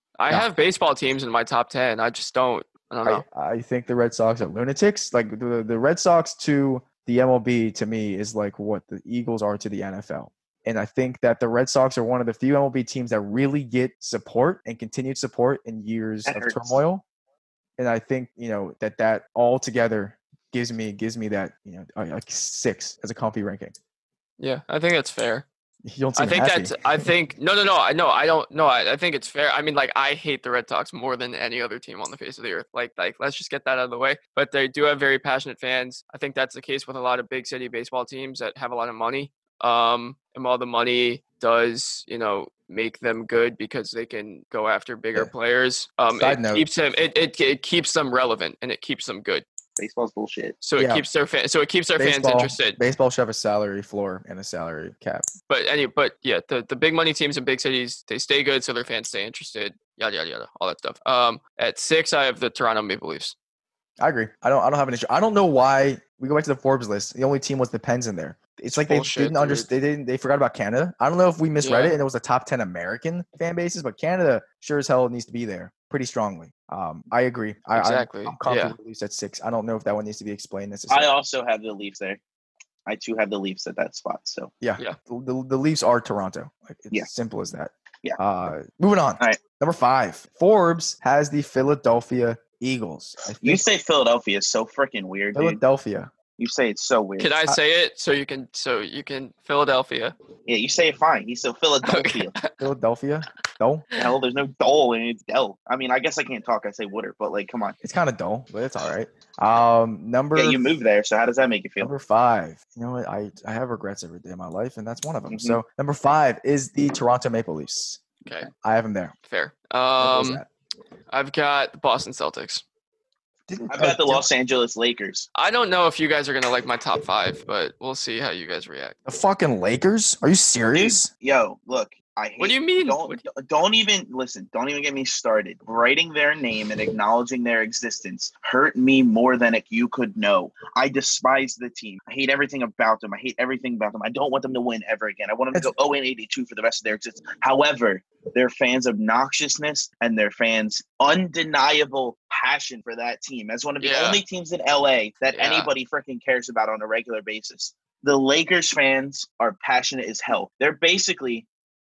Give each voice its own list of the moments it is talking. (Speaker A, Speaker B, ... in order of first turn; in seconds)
Speaker A: 0.2-3.2, 24.4-25.4, 26.2-49.5, 50.6-52.8, 55.5-63.3, 68.8-69.7, 71.6-72.0, 77.8-78.8, 97.2-100.2, 101.8-102.5, 119.3-120.4, 121.1-122.6, 125.3-129.0, 132.4-133.2, 153.8-154.2, 155.4-155.7
Speaker B: 3.0-17.0, 17.8-23.8, 25.8-27.1, 46.1-46.7, 50.8-51.1, 52.0-55.3, 64.0-81.1, 84.6-93.7, 95.3-96.1, 102.6-103.9, 107.8-110.8, 111.8-118.0, 118.6-119.1, 120.0-120.5, 123.5-124.3, 129.1-131.1
Speaker C: 16.3-16.8, 49.8-50.6, 80.9-82.2, 82.9-84.5, 93.4-95.6, 96.4-97.4, 100.5-102.4, 104.0-107.8, 110.3-111.9, 115.3-115.6, 123.7-125.3, 130.7-161.5